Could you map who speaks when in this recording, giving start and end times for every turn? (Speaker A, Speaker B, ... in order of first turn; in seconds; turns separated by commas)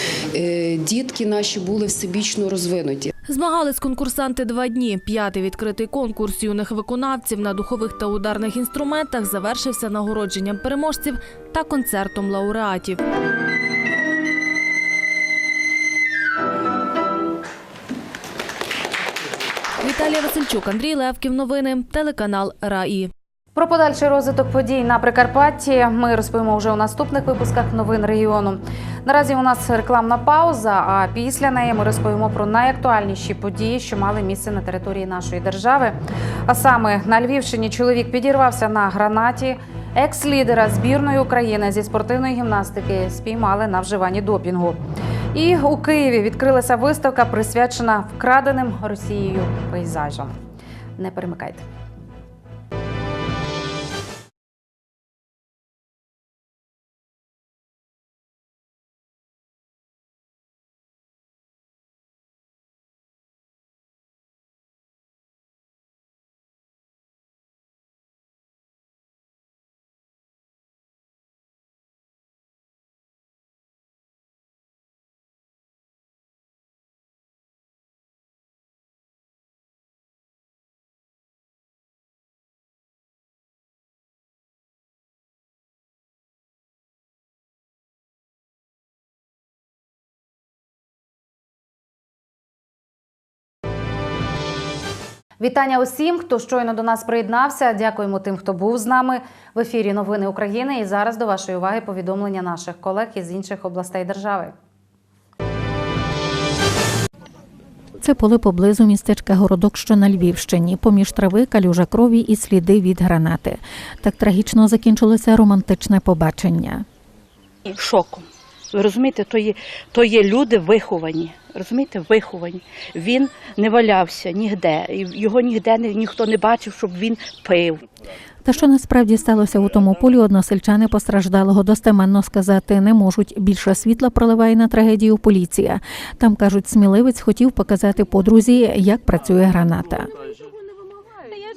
Speaker A: 0.3-3.1, Speaker B: 3.3-13.0, Speaker B: 19.8-23.1, Speaker C: 23.6-44.8, Speaker C: 45.3-50.4, Speaker C: 51.0-51.7, Speaker C: 95.4-104.5, Speaker D: 108.0-116.8, Speaker E: 117.7-127.8, Speaker D: 128.4-140.1